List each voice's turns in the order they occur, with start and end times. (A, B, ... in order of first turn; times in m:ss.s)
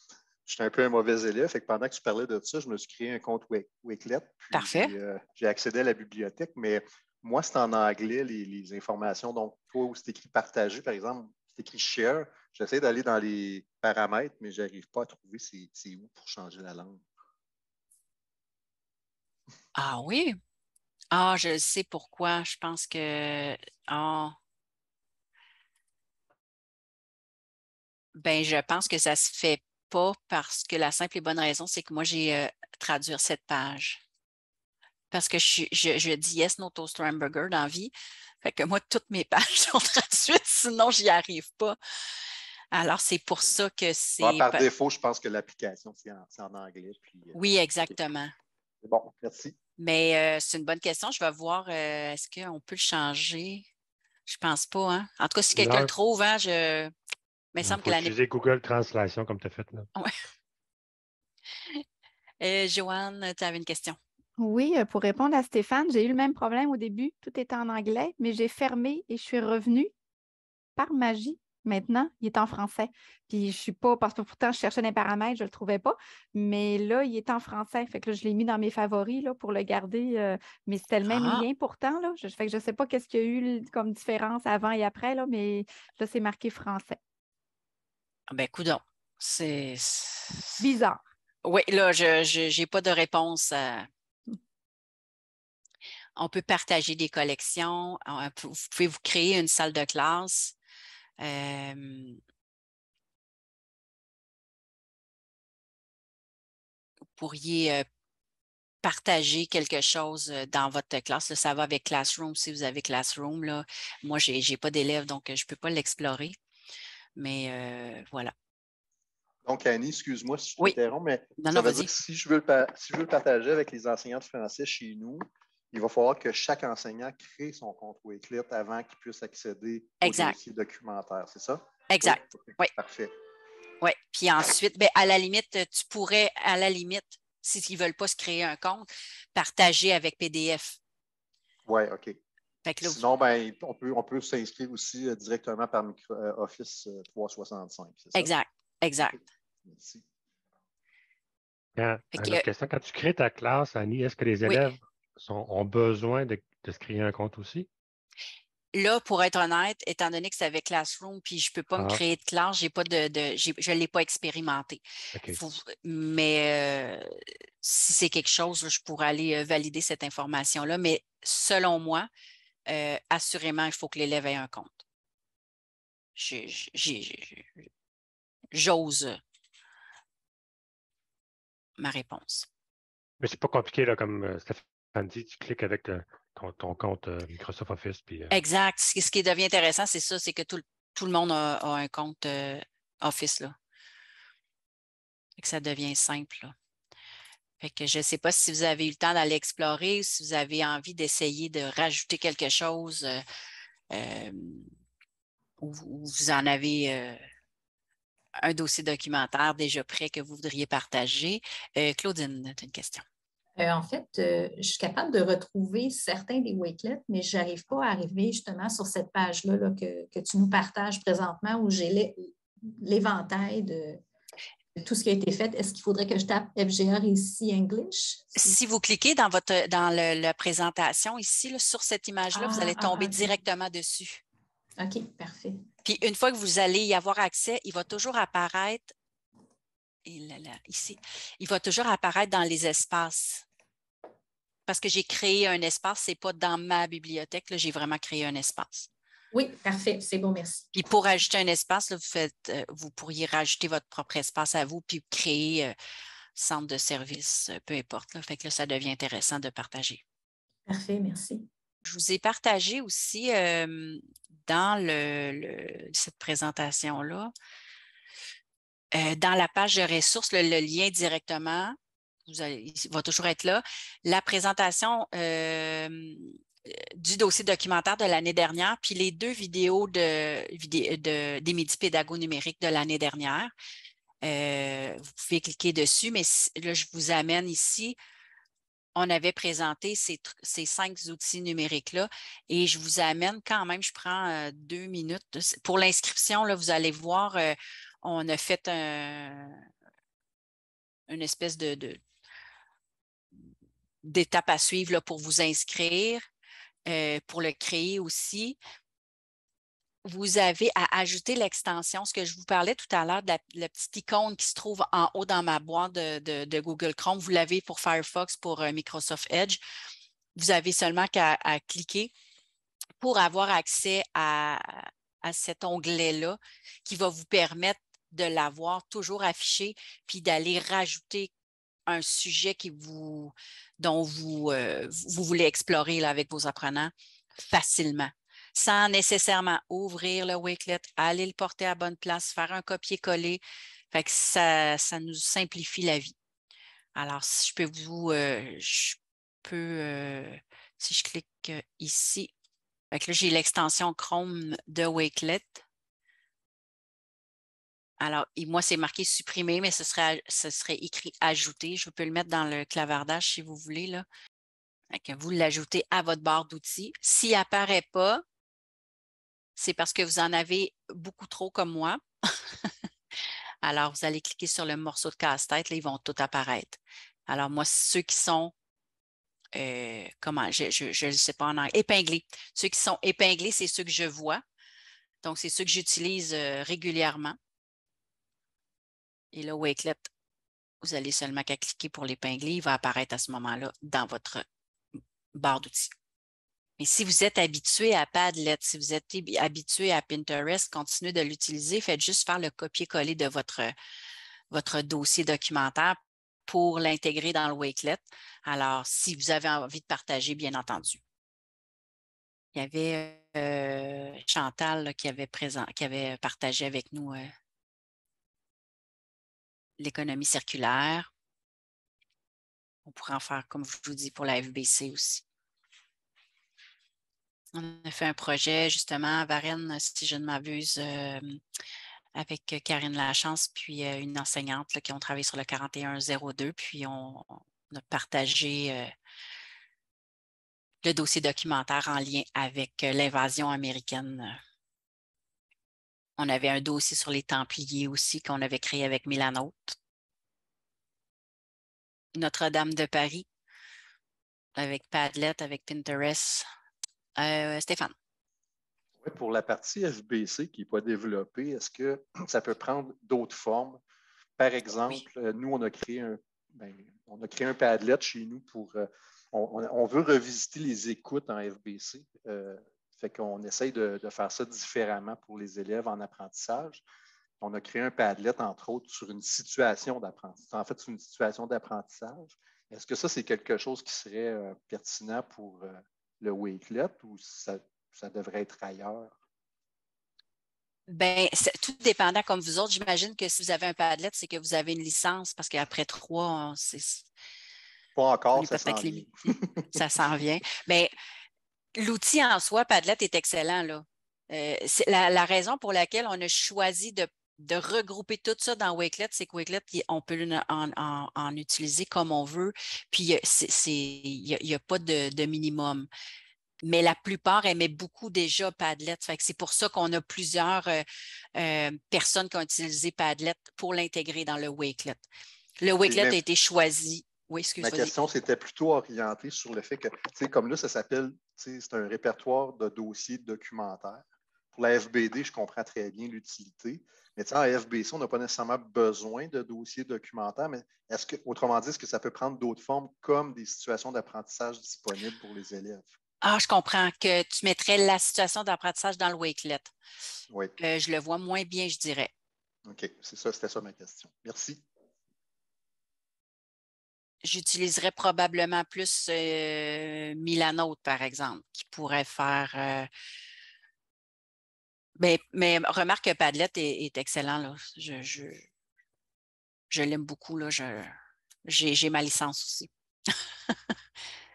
0:00.5-0:17.0 A
0:04.5-0:04.9 B
0:19.8-0:20.4 B
0:21.1-0:24.4 B
0:28.2-0:34.0 B
0:35.1-0:41.8 B
0:42.7-0:44.7 B
0:44.2-0:47.4 A
0:47.4-0:48.3 B
0:48.8-0:49.6 A
0:49.8-0:53.7 B
0:54.3-0:56.9 B
0:55.5-0:55.9 C
0:57.5-0:58.1 B
0:57.6-0:59.9 C
1:02.4-1:04.0 B
1:04.4-1:09.9 D
1:10.8-1:27.0 D
1:21.0-1:21.5 B
1:28.3-1:30.6 B
1:30.6-1:31.0 D
1:31.4-1:33.9 B
1:36.2-1:40.6 B
1:41.2-1:42.2 B
1:47.2-1:47.8 B
1:48.8-1:56.4 B
1:57.2-1:58.3 B
1:59.4-2:13.1 A
2:01.4-2:01.9 B
2:10.0-2:10.4 B
2:11.9-2:12.7 B
2:13.8-2:20.8 B
2:21.7-2:22.2 A
2:22.6-2:23.0 B
2:22.8-2:28.3 A
2:28.1-2:29.2 B
2:29.7-2:30.0 A
2:31.8-2:37.7 C
2:32.1-2:32.4 B
2:38.7-2:44.8 B
2:41.7-2:42.0 C
2:45.3-2:52.1 B
2:52.7-2:54.8 B
2:56.2-2:57.6 B
2:58.5-2:59.2 B
3:01.8-3:02.5 B
3:03.2-3:08.4 C
3:08.3-3:13.6 B
3:15.4-3:16.6 B
3:17.6-3:23.2 B
3:23.9-3:24.7 B
3:25.6-3:27.2 B
3:28.4-3:33.0 B
3:33.6-3:44.0 E
3:44.8-3:48.6 E
3:48.4-3:54.2 B
3:52.3-3:53.3 E
3:54.8-3:55.6 E
3:55.8-3:58.9 B
4:00.1-4:03.5 B
4:04.7-4:08.9 B
4:09.3-4:10.7 E
4:10.7-4:15.7 B
4:16.4-4:20.0 B
4:20.7-4:21.5 E
4:21.8-4:27.3 B
4:28.9-4:43.5 B
4:44.2-4:48.0 B
4:49.0-4:59.6 B
5:01.1-5:02.0 B
5:04.0-5:06.2 B
5:06.9-5:08.6 B
5:10.0-5:19.6 B
5:20.4-5:22.1 B
5:23.0-5:31.3 B
5:31.9-5:46.2 B
5:47.0-5:52.3 B
5:52.9-5:55.6 B
5:58.0-6:04.1 B
6:04.9-6:08.2 B
6:09.6-6:12.0 B
6:13.6-6:18.5 B
6:19.6-6:24.4 B
6:25.2-6:27.4 B
6:29.3-6:30.1 B
6:30.8-6:34.4 B
6:35.3-6:35.9 B
6:36.8-6:43.7 B
6:44.5-6:51.0 B
6:52.5-6:57.3 B
6:59.8-7:01.1 B
7:02.8-7:05.2 B
7:07.5-7:11.4 B
7:12.2-7:18.9 B
7:20.8-7:24.4 B
7:26.2-7:29.8 B
7:32.2-7:33.3 B
7:34.6-7:36.4 B
7:37.2-7:37.9 B
7:39.0-7:43.8 A
7:44.4-7:56.8 A
7:57.4-8:09.2 A
8:10.9-8:17.1 B
8:18.0-8:19.7 A
8:18.3-8:19.1 B
8:19.7-8:20.9 B
8:21.8-8:35.9 B
8:36.6-8:40.8 B
8:41.4-8:45.0 B
8:45.6-8:47.9 B
8:45.8-8:46.2 A
8:47.6-9:05.9 A
9:06.2-9:09.7 B
9:10.6-9:12.1 B
9:12.7-9:14.6 A
9:17.2-9:22.9 B
9:25.0-9:28.5 B
9:29.7-9:30.9 B
9:31.5-9:32.7 B